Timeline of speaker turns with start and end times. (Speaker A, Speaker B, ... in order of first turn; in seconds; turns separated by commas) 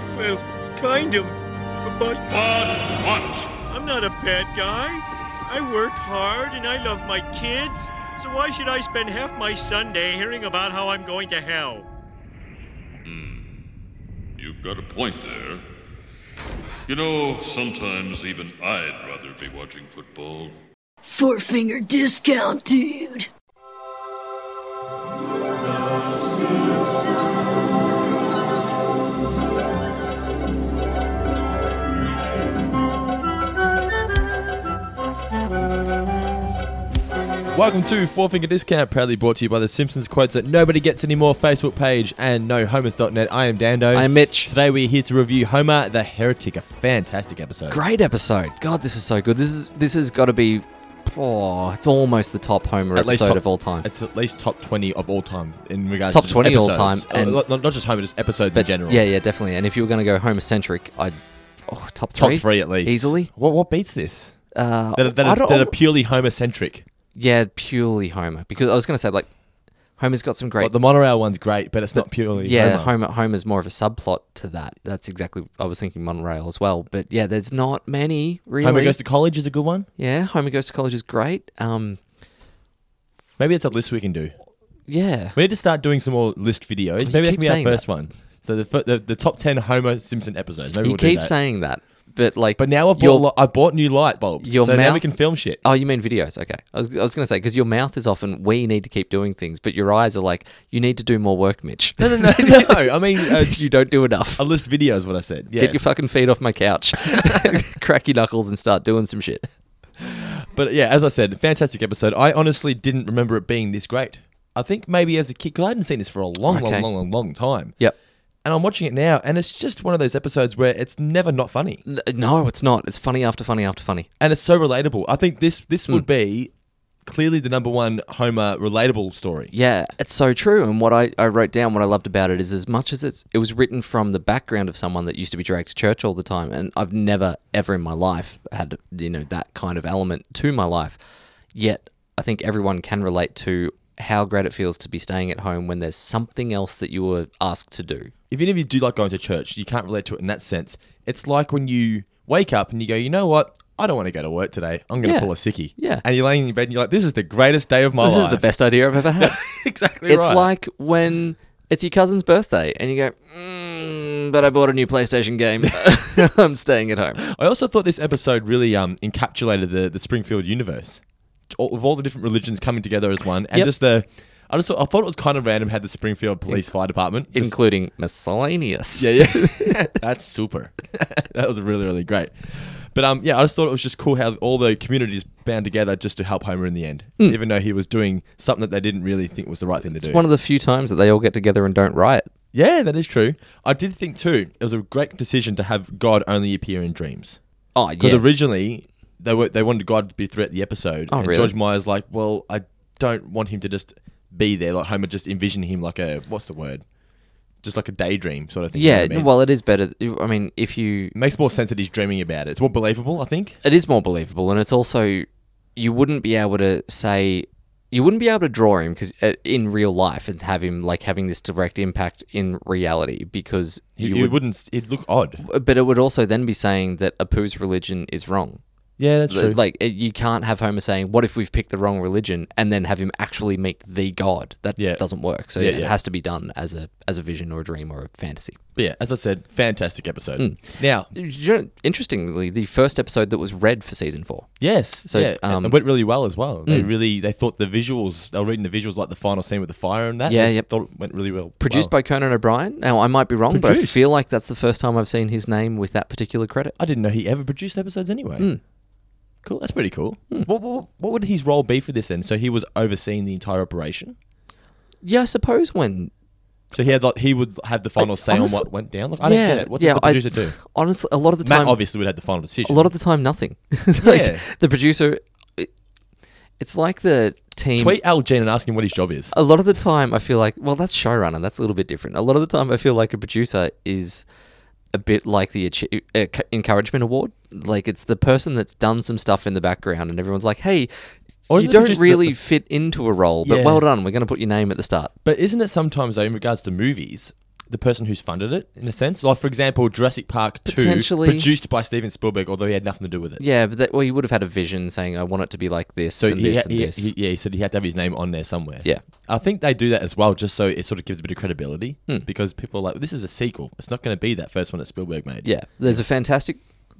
Speaker A: 0.1-2.2, Speaker B: 2.3-3.5, Speaker A: 3.7-11.9, Speaker B: 13.1-13.4, Speaker B: 14.4-15.6, Speaker B: 16.9-20.6, Speaker C: 21.0-23.3, Speaker D: 37.5-47.8, Speaker E: 43.9-44.5, Speaker E: 47.7-53.9, Speaker D: 52.9-59.0, Speaker E: 56.1-57.4, Speaker E: 58.5-61.2, Speaker E: 61.7-63.3, Speaker D: 62.1-64.4, Speaker E: 64.5-65.7, Speaker D: 64.9-66.8, Speaker E: 67.1-69.3, Speaker E: 70.0-70.8, Speaker D: 70.6-72.9, Speaker E: 72.0-79.0, Speaker D: 78.6-79.9, Speaker E: 80.0-82.0, Speaker D: 83.4-84.3, Speaker E: 84.9-85.4, Speaker D: 85.3-91.3, Speaker E: 87.0-87.8, Speaker E: 90.8-93.3, Speaker D: 92.6-95.6, Speaker E: 94.4-95.0, Speaker E: 95.6-104.4, Speaker D: 102.0-103.6, Speaker D: 104.4-105.8, Speaker E: 105.5-109.5, Speaker D: 110.0-117.8, Speaker E: 116.5-116.9, Speaker D: 118.4-121.8, Speaker E: 121.8-124.1, Speaker D: 124.2-126.5, Speaker D: 127.0-129.5, Speaker E: 129.5-141.0, Speaker E: 141.5-148.1, Speaker D: 148.3-158.5, Speaker E: 155.0-156.0, Speaker E: 158.0-159.4, Speaker D: 159.2-160.5, Speaker E: 160.1-167.2, Speaker D: 165.7-166.3, Speaker D: 167.2-177.5, Speaker E: 177.3-179.7, Speaker D: 179.0-190.2, Speaker E: 189.9-192.3, Speaker D: 192.5-197.4, Speaker E: 197.7-198.2, Speaker D: 198.0-206.8, Speaker E: 201.1-201.5, Speaker D: 207.6-209.3, Speaker E: 208.7-211.1, Speaker D: 211.1-213.6, Speaker E: 213.6-224.4, Speaker D: 224.0-225.4, Speaker E: 225.4-228.6, Speaker D: 229.0-229.6, Speaker E: 229.3-238.6, Speaker D: 234.8-235.9, Speaker D: 238.8-241.1, Speaker E: 240.4-245.8, Speaker D: 244.6-251.9, Speaker E: 250.3-250.7, Speaker E: 251.6-256.8, Speaker D: 253.5-254.0, Speaker D: 256.8-258.5, Speaker D: 259.4-264.1, Speaker E: 265.0-266.1, Speaker D: 266.7-270.6, Speaker E: 268.0-268.7, Speaker E: 269.2-271.8, Speaker D: 271.4-272.9, Speaker E: 272.6-275.7, Speaker D: 274.0-274.4, Speaker E: 276.6-278.0, Speaker D: 277.8-279.3, Speaker E: 279.3-284.2, Speaker E: 284.9-295.1, Speaker D: 291.5-292.4, Speaker D: 293.4-293.8, Speaker D: 295.2-303.4, Speaker E: 300.6-301.5, Speaker E: 303.4-307.1, Speaker D: 306.2-316.0, Speaker E: 315.4-316.6